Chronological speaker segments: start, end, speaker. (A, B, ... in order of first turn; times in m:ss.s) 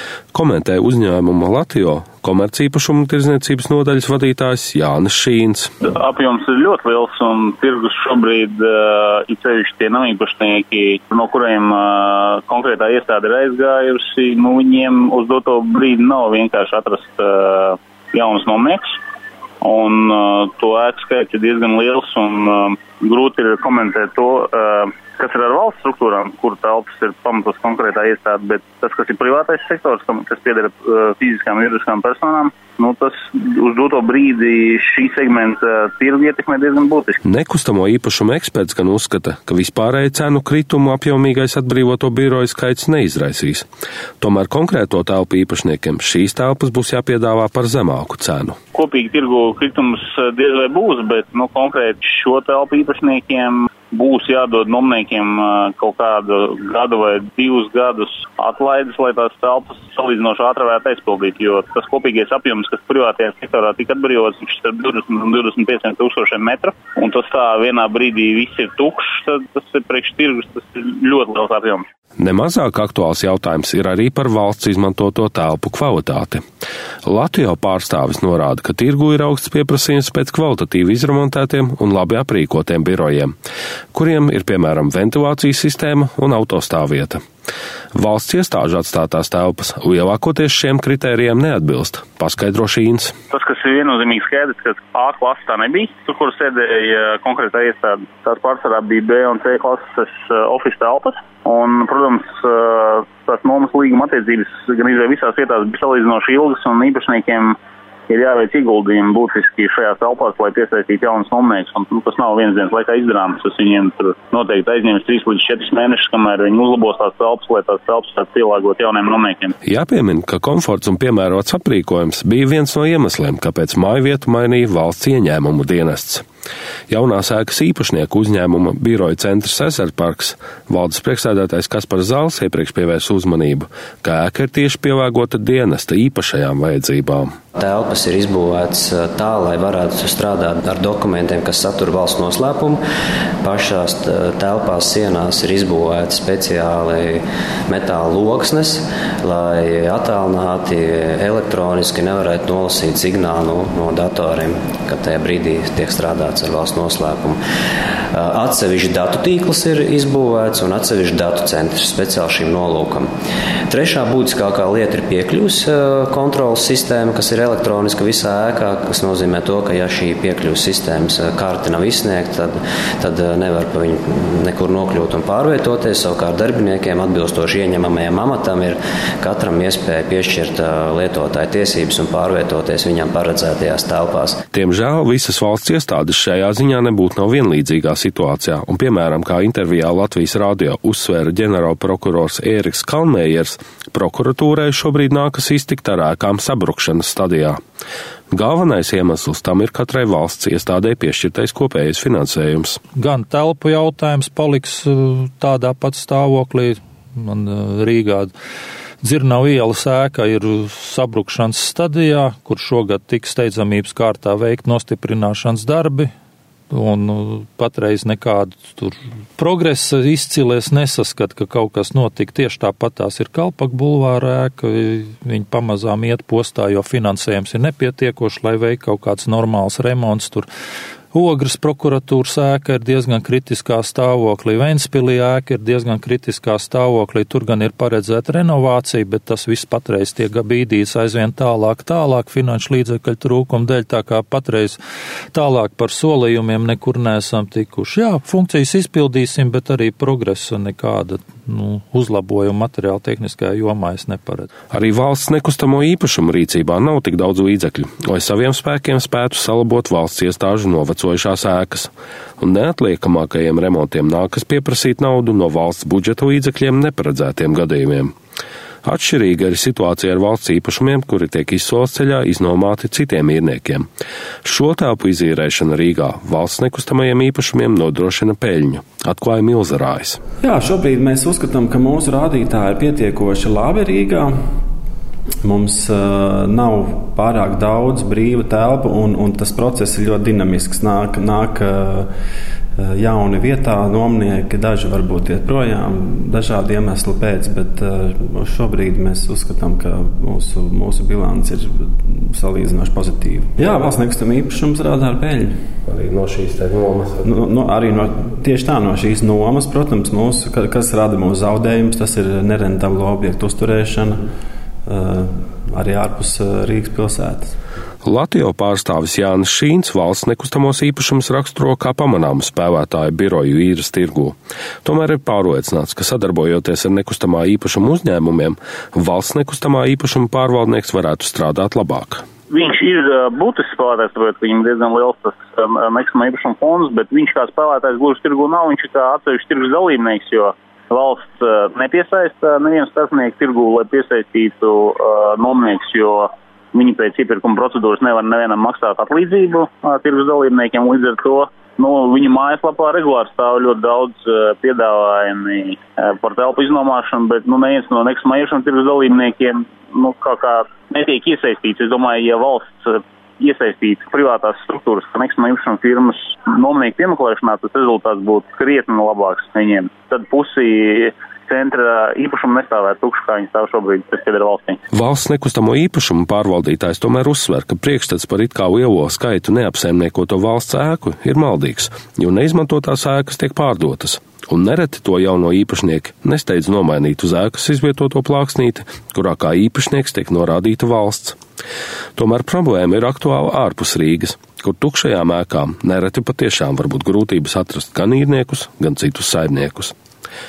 0:00.3-0:05.7 A
0:05.9-0:19.0 B
0:19.6-0:37.2 B
0:37.2-0:43.7 A
0:44.2-0:48.6 A
0:48.7-1:11.9 B
1:12.2-1:16.4 A
1:17.0-1:23.3 A
1:23.9-1:27.2 A
1:27.9-1:33.1 A
1:33.3-1:47.6 B
1:48.1-1:59.5 B
1:59.6-2:06.2 A
2:06.9-2:17.3 A
2:17.6-2:22.8 C
2:23.4-2:37.4 C
2:38.1-2:43.1 C
2:43.7-3:04.4 C
3:04.5-3:17.6 A
3:18.3-3:22.8 A
3:23.0-3:28.3 D
3:29.0-3:36.1 D
3:36.7-3:50.5 D
3:51.1-4:04.8 D
4:05.3-4:14.5 D
4:14.7-4:28.2 A
4:28.8-4:33.9 A
4:34.4-4:40.2 A
4:40.4-4:44.3 E
4:45.4-4:52.1 E
4:52.8-5:05.5 E
5:05.9-5:07.3 A
5:07.2-5:14.2 E
5:14.9-5:17.6 E
5:18.0-5:32.2 A
5:32.5-6:14.8 B
6:14.9-6:31.4 A
6:32.2-6:39.9 A